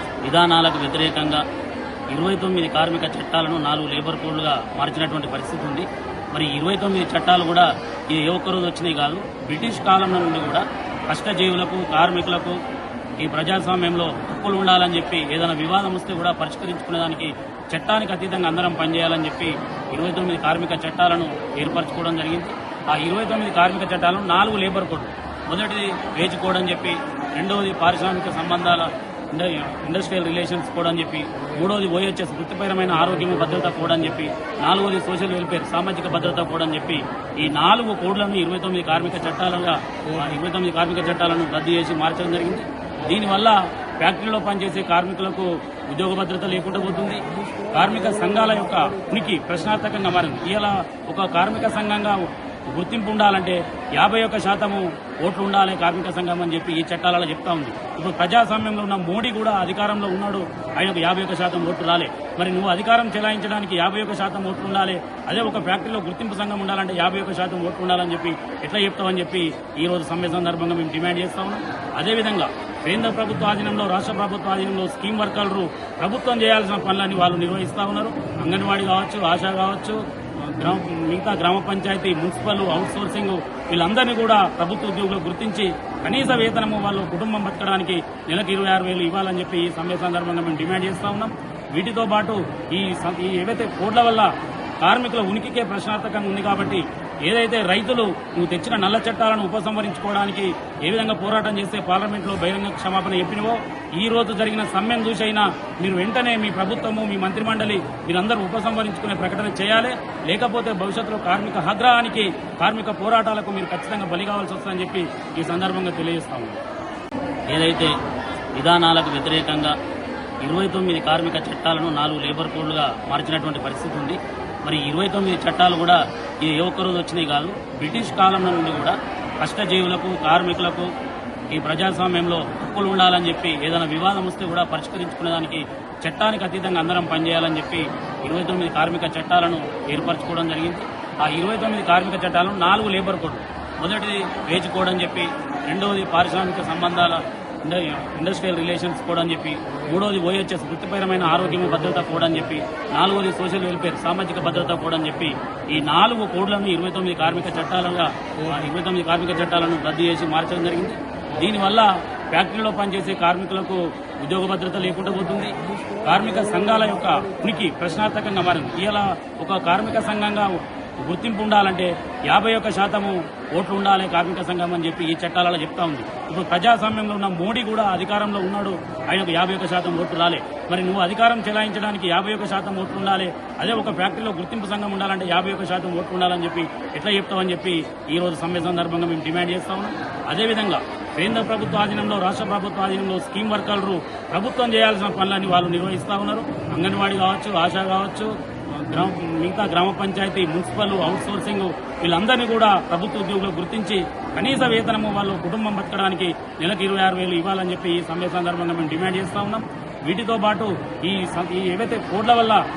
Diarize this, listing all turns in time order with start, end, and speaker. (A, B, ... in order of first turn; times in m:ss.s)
0:00.2-0:01.4 A
0:02.1-0:12.6 A
0:13.2-1:34.3 A
1:34.8-1:56.6 A
1:57.5-1:57.9 A
1:58.6-1:59.8 A
2:00.4-2:10.9 A
2:11.5-3:32.6 A